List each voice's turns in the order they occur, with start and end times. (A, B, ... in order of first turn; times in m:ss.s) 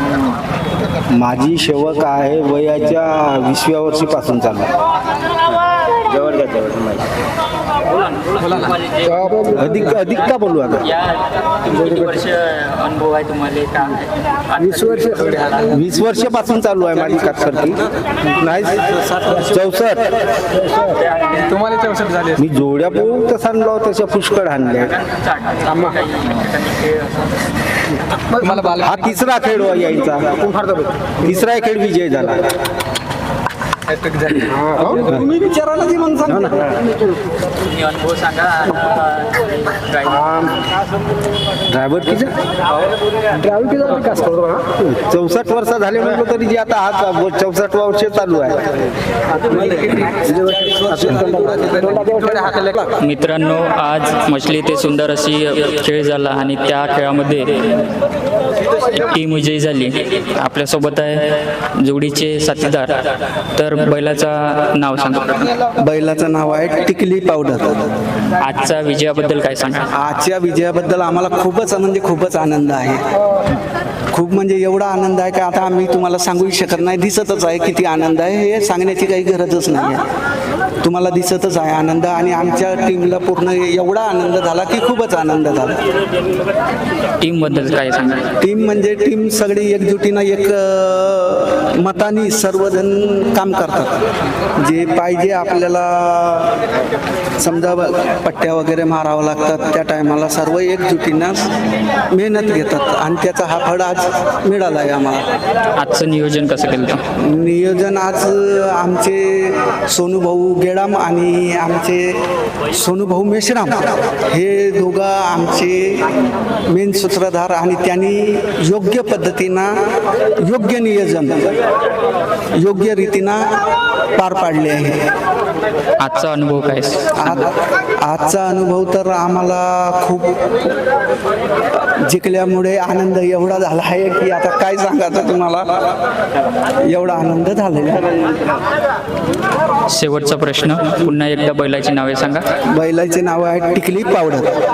0:01.1-0:04.7 A
0:06.2-0:07.0 A
0:07.9-0:09.5 B
0:09.2-0:09.7 C
0:09.5-0:10.9 A
0:10.8-0:15.6 B
0:14.8-0:15.3 C
0:15.6-0:20.1 A
0:21.0-0:21.7 B
0:21.6-0:22.3 C
0:22.3-0:25.0 A
0:24.9-0:27.3 B
0:28.3-0:30.5 A
0:30.6-0:30.9 C
0:31.2-0:32.4 A
0:34.0-0:35.0 C
0:35.0-0:36.6 D
0:36.2-0:36.7 A
0:37.6-0:40.4 B
0:41.7-0:42.3 A
0:43.3-0:44.7 C
0:44.9-0:48.7 A
0:49.4-0:52.9 D
0:50.2-0:52.6 C
0:53.0-0:57.9 B
0:59.0-1:05.5 B
1:05.8-1:07.9 D
1:08.4-1:09.9 B
1:09.9-1:13.0 D
1:14.1-1:20.0 D
1:20.8-1:25.8 D
1:27.2-1:28.3 B
1:28.4-1:34.0 D
1:34.6-1:36.6 D
1:37.4-1:41.5 D
1:42.1-1:45.3 D
1:45.8-1:47.0 B
1:47.2-1:52.2 D
1:52.7-1:56.1 D
1:56.7-1:59.7 D
2:00.4-2:01.5 D
2:02.6-2:03.4 D
2:04.2-2:05.0 D
2:06.0-2:07.5 B
2:07.2-2:10.7 D
2:12.0-2:15.8 D
2:16.8-2:18.3 D
2:19.9-2:22.4 B
2:22.7-2:24.5 D